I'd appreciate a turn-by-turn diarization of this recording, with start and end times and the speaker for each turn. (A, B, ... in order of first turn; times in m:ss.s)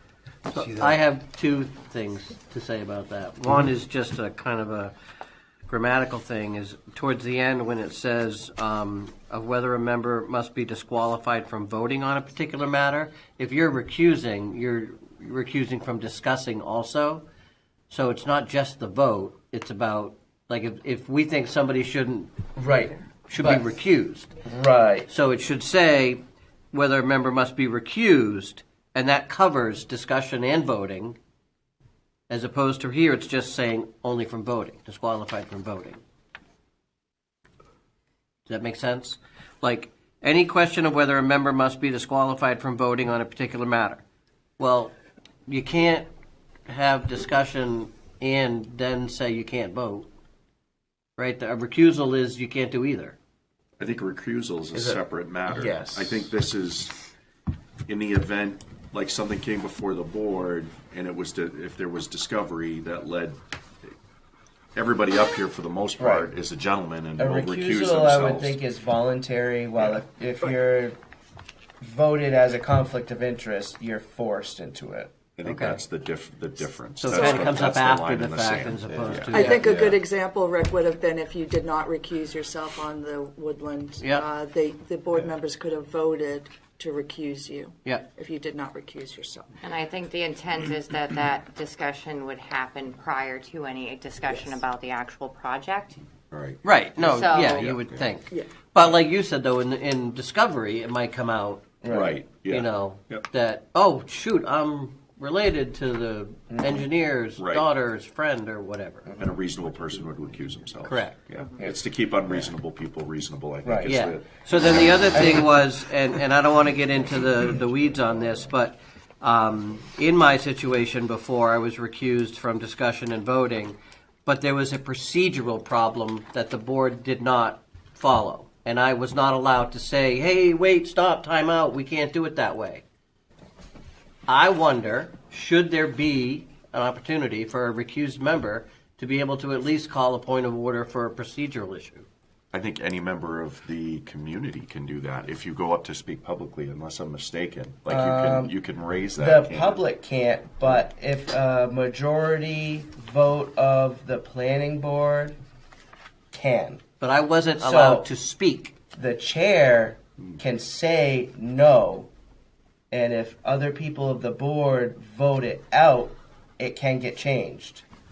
0:00.5-0:04.9 A
0:05.7-0:17.2 A
0:17.9-0:22.3 A
0:22.6-0:23.7 B
0:23.3-0:24.3 A
0:24.4-0:25.1 B
0:25.1-0:31.2 A
0:32.3-0:36.0 A
0:38.5-0:44.0 A
0:44.6-0:44.9 A
0:45.5-0:46.1 A
0:46.7-0:50.1 A
0:51.2-0:53.2 A
0:53.8-0:57.0 C
0:54.7-0:56.3 B
0:57.9-1:03.4 C
1:04.8-1:08.6 C
1:06.0-1:06.3 B
1:07.2-1:11.0 B
1:11.8-1:15.2 B
1:15.4-1:20.0 C
1:15.4-1:15.8 A
1:17.0-1:19.6 A
1:17.1-1:17.5 D
1:19.3-1:29.5 D
1:19.3-1:19.6 B
1:24.0-1:24.3 A
1:29.6-1:36.0 E
1:36.3-1:38.0 C
1:36.6-1:41.7 A
1:37.0-1:37.8 E
1:41.8-1:42.2 B
1:41.9-1:43.2 C
1:42.4-1:49.1 A
1:46.5-1:46.9 B
1:47.4-1:47.7 C
1:49.0-1:50.0 B
1:49.2-1:55.3 C
1:50.8-1:51.2 A
1:53.6-1:54.0 B
1:53.9-2:12.8 A
1:55.1-1:55.5 B
2:14.3-2:22.1 A
2:22.5-2:29.8 C
2:27.9-2:28.5 B
2:29.2-2:35.4 B
2:36.3-2:36.8 B
2:37.0-2:38.7 A
2:37.6-2:38.1 B
2:38.9-2:42.1 B
2:42.9-2:47.8 B